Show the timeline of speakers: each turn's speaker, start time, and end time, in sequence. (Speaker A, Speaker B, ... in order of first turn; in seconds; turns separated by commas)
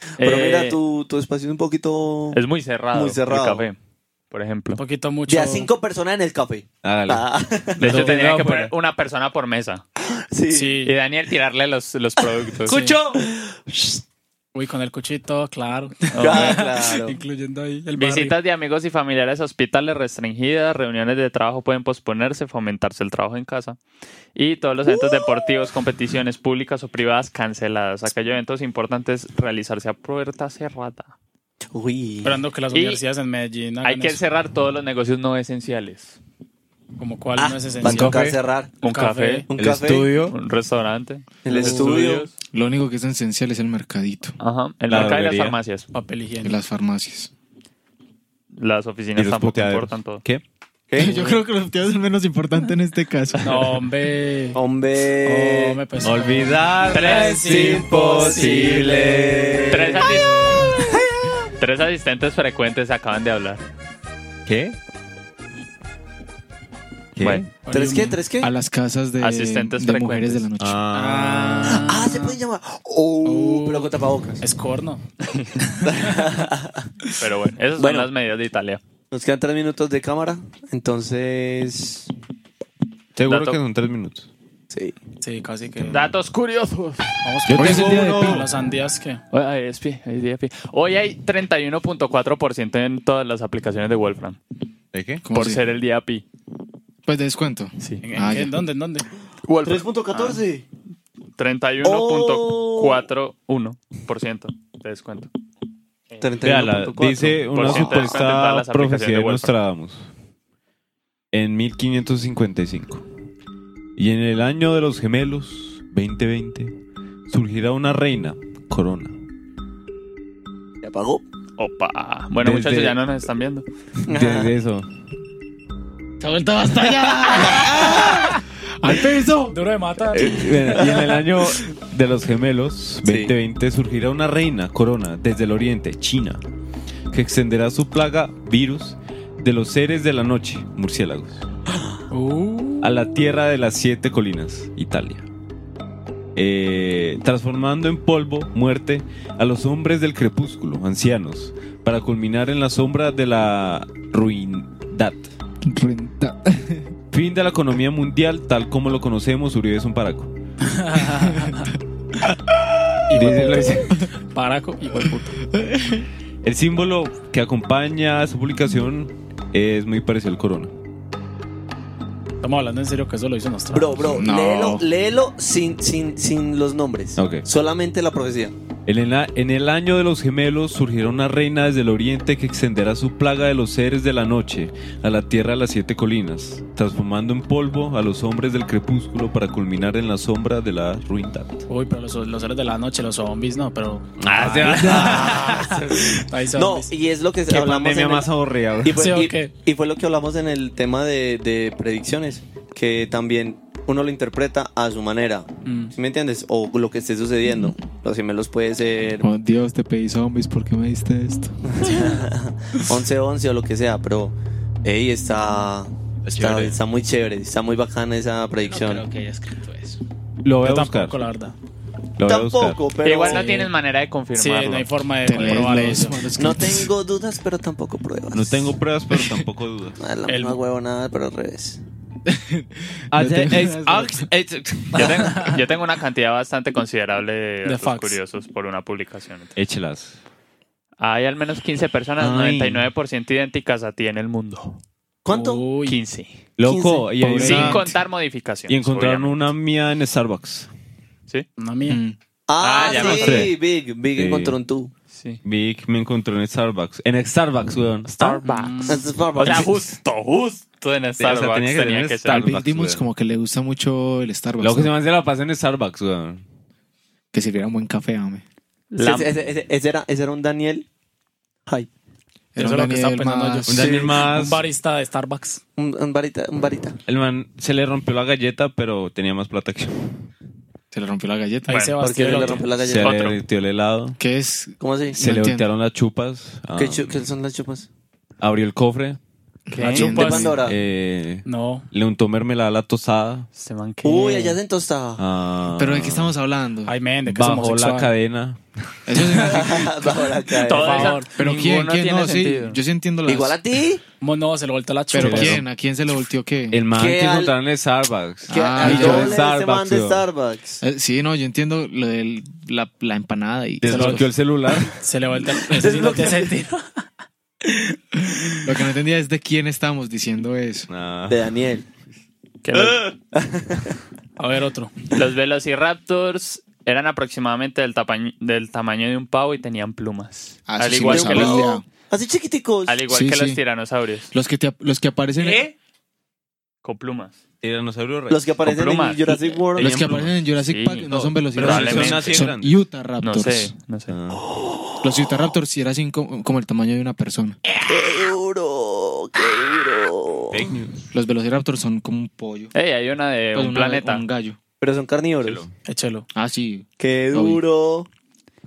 Speaker A: 0.2-2.4, Speaker B: 0.2-0.8, Speaker B: 2.3-3.8, Speaker A: 2.9-3.6, Speaker B: 4.3-4.8, Speaker C: 4.8-5.7, Speaker A: 5.3-7.9, Speaker D: 6.8-7.2, Speaker B: 7.8-9.8, Speaker D: 7.8-8.7, Speaker C: 7.8-8.2, Speaker A: 10.2-10.9, Speaker C: 10.5-10.9, Speaker B: 10.8-12.9, Speaker C: 12.7-13.0, Speaker D: 12.7-13.2, Speaker A: 13.1-14.0, Speaker C: 14.5-18.4, Speaker B: 16.1-16.6, Speaker A: 16.2-17.2, Speaker B: 17.9-23.8, Speaker B: 24.3-31.1, Speaker A: 31.7-32.4, Speaker C: 32.2-34.2, Speaker B: 32.7-33.0, Speaker B: 33.8-36.2, Speaker C: 37.0-39.5, Speaker A: 37.4-38.7, Speaker D: 37.8-38.4, Speaker B: 38.8-39.5, Speaker A: 39.5-40.1, Speaker D: 39.5-40.4, Speaker B: 40.3-42.3, Speaker A: 41.4-42.3, Speaker C: 41.5-42.0, Speaker E: 42.5-44.3, Speaker B: 44.4-45.9, Speaker D: 44.9-45.6, Speaker C: 45.9-46.6, Speaker E: 46.4-47.3, Speaker B: 48.5-50.2, Speaker D: 49.1-51.2, Speaker E: 51.0-53.8, Speaker C: 53.4-54.6, Speaker A: 54.5-55.8, Speaker C: 55.2-59.0, Speaker D: 56.0-60.1, Speaker B: 56.9-58.8, Speaker A: 58.3-60.0, Speaker B: 59.7-60.3, Speaker A: 60.8-61.3, Speaker B: 61.6-63.6, Speaker D: 64.5-64.8, Speaker D: 67.1-67.5, Speaker B: 67.2-67.5, Speaker C: 67.6-68.2, Speaker A: 67.7-68.5, Speaker E: 68.4-70.8, Speaker B: 69.2-70.4, Speaker D: 70.6-71.9, Speaker C: 70.9-72.4, Speaker A: 71.9-74.4, Speaker C: 73.2-76.2, Speaker A: 75.8-76.9, Speaker B: 77.2-78.8, Speaker A: 77.8-78.1, Speaker A: 79.1-82.1, Speaker D: 83.2-84.3, Speaker B: 83.2-83.6, Speaker A: 84.7-85.0, Speaker C: 85.2-86.1, Speaker B: 85.9-87.1, Speaker C: 87.2-89.2, Speaker D: 87.5-88.5, Speaker E: 87.5-88.5, Speaker B: 89.3-94.4, Speaker D: 94.9-95.2, Speaker E: 95.2-95.6, Speaker B: 95.3-96.2, Speaker E: 97.0-98.6, Speaker C: 98.0-99.1, Speaker B: 99.4-100.4, Speaker A: 99.6-100.7, Speaker B: 101.4-105.3, Speaker A: 101.8-103.1, Speaker A: 106.2-108.2, Speaker D: 106.4-110.1, Speaker B: 107.5-109.5, Speaker D: 111.3-113.0, Speaker D: 114.0-116.7, Speaker D: 117.3-119.1, Speaker A: 120.8-121.2, Speaker B: 121.6-123.6, Speaker D: 122.4-123.0, Speaker A: 124.0-124.5, Speaker D: 124.1-124.9, Speaker E: 126.2-129.6, Speaker C: 126.8-127.5, Speaker A: 127.1-128.2, Speaker C: 129.5-130.4, Speaker D: 130.1-136.4, Speaker A: 130.2-131.0, Speaker A: 133.0-133.3, Speaker D: 137.1-141.4, Speaker C: 142.1-142.9, Speaker D: 142.8-145.2, Speaker D: 146.3-155.3, Speaker E: 155.6-156.9, Speaker D: 157.1-160.3, Speaker C: 160.6-161.7, Speaker E: 161.3-161.6, Speaker C: 163.1-165.4, Speaker D: 163.1-164.0, Speaker E: 165.5-166.1, Speaker D: 166.4-170.7, Speaker C: 172.4-174.2, Speaker A: 173.7-178.5, Speaker E: 174.1-174.9, Speaker D: 177.2-177.4, Speaker D: 178.9-191.6, Speaker C: 191.7-196.9, Speaker D: 194.2-195.6, Speaker A: 194.8-198.3, Speaker D: 197.5-199.0, Speaker A: 198.8-209.3, Speaker C: 198.9-199.5, Speaker C: 205.6-205.9, Speaker E: 209.2-211.9, Speaker A: 211.7-219.0, Speaker D: 216.2-216.7, Speaker E: 218.7-220.0, Speaker D: 220.4-221.2, Speaker C: 220.6-221.6, Speaker D: 222.2-222.8, Speaker A: 222.2-223.5, Speaker B: 223.0-224.9, Speaker C: 223.2-223.7, Speaker C: 224.3-226.3, Speaker E: 225.2-226.9, Speaker A: 226.3-228.8, Speaker D: 228.3-230.0, Speaker A: 230.0-231.8, Speaker C: 230.3-230.6, Speaker E: 232.3-234.3, Speaker D: 233.1-235.3, Speaker B: 234.9-239.5, Speaker C: 237.6-238.2, Speaker D: 239.6-240.2, Speaker B: 241.0-244.8, Speaker D: 242.2-242.9, Speaker A: 245.2-245.6, Speaker C: 245.3-246.0, Speaker B: 245.8-246.4, Speaker D: 246.6-247.9, Speaker A: 246.6-247.7, Speaker E: 247.2-247.8, Speaker B: 247.3-249.4, Speaker D: 248.7-250.7, Speaker C: 251.6-252.0, Speaker E: 251.9-252.2, Speaker A: 252.5-254.9, Speaker B: 252.6-253.5, Speaker D: 252.7-253.6, Speaker D: 254.1-254.5, Speaker B: 255.1-255.4, Speaker D: 255.4-258.4, Speaker B: 258.1-262.5, Speaker C: 258.4-259.1, Speaker A: 258.8-259.7, Speaker D: 261.2-263.0, Speaker E: 262.3-264.9, Speaker D: 264.6-266.4, Speaker E: 267.3-268.4, Speaker B: 268.9-269.3, Speaker A: 269.0-270.9, Speaker E: 272.5-273.8, Speaker C: 272.6-275.6, Speaker D: 273.7-274.6, Speaker A: 273.8-274.2, Speaker A: 275.8-277.0, Speaker D: 277.1-280.2, Speaker E: 280.9-281.9, Speaker B: 281.7-281.9, Speaker C: 281.7-282.7, Speaker A: 282.0-283.1, Speaker D: 282.3-284.2, Speaker B: 283.0-283.4, Speaker E: 284.2-285.7, Speaker A: 284.8-285.2, Speaker D: 285.2-287.3, Speaker A: 286.8-287.9, Speaker D: 288.4-289.2, Speaker E: 289.7-290.6, Speaker C: 289.7-290.6, Speaker A: 289.8-290.7, Speaker D: 289.9-293.5, Speaker C: 291.4-291.9, Speaker B: 293.5-294.6, Speaker A: 294.0-295.2, Speaker D: 295.2-296.4, Speaker E: 295.8-296.9, Speaker C: 296.8-298.1, Speaker D: 297.2-298.6, Speaker E: 299.1-300.2, Speaker D: 299.2-299.5, Speaker A: 299.4-301.2, Speaker B: 300.6-302.8, Speaker C: 300.7-301.3, Speaker E: 301.3-303.6, Speaker A: 303.2-304.0, Speaker C: 304.2-305.6, Speaker E: 305.1-306.8, Speaker D: 305.2-305.6, Speaker D: 306.7-310.2, Speaker A: 306.9-307.5, Speaker E: 308.5-309.4, Speaker A: 308.5-310.8, Speaker C: 308.9-309.2, Speaker E: 310.8-314.3, Speaker D: 313.8-315.0, Speaker C: 313.9-314.3, Speaker C: 314.9-316.8, Speaker A: 315.7-316.6, Speaker C: 317.6-318.7, Speaker E: 318.6-320.9, Speaker D: 320.9-321.4, Speaker A: 321.3-321.9, Speaker B: 322.6-323.1, Speaker A: 322.8-323.9, Speaker C: 324.4-324.9, Speaker B: 325.1-331.6, Speaker E: 330.7-331.8, Speaker A: 331.1-333.0, Speaker B: 332.9-334.3, Speaker E: 333.1-333.6, Speaker E: 334.3-335.6, Speaker D: 335.4-335.7, Speaker B: 336.8-337.4, Speaker D: 337.6-338.5, Speaker A: 338.3-340.1, Speaker B: 338.6-339.5, Speaker D: 339.8-340.4, Speaker E: 339.8-343.7, Speaker B: 340.6-342.5, Speaker D: 341.1-342.7, Speaker B: 343.2-344.1, Speaker D: 344.1-344.4, Speaker E: 345.0-347.6, Speaker A: 347.8-350.6, Speaker D: 350.5-351.0, Speaker E: 351.1-352.7, Speaker B: 352.7-354.2, Speaker E: 353.5-354.6, Speaker A: 354.8-355.6, Speaker D: 355.4-355.7, Speaker C: 355.8-356.3, Speaker E: 356.3-357.6, Speaker A: 357.0-358.1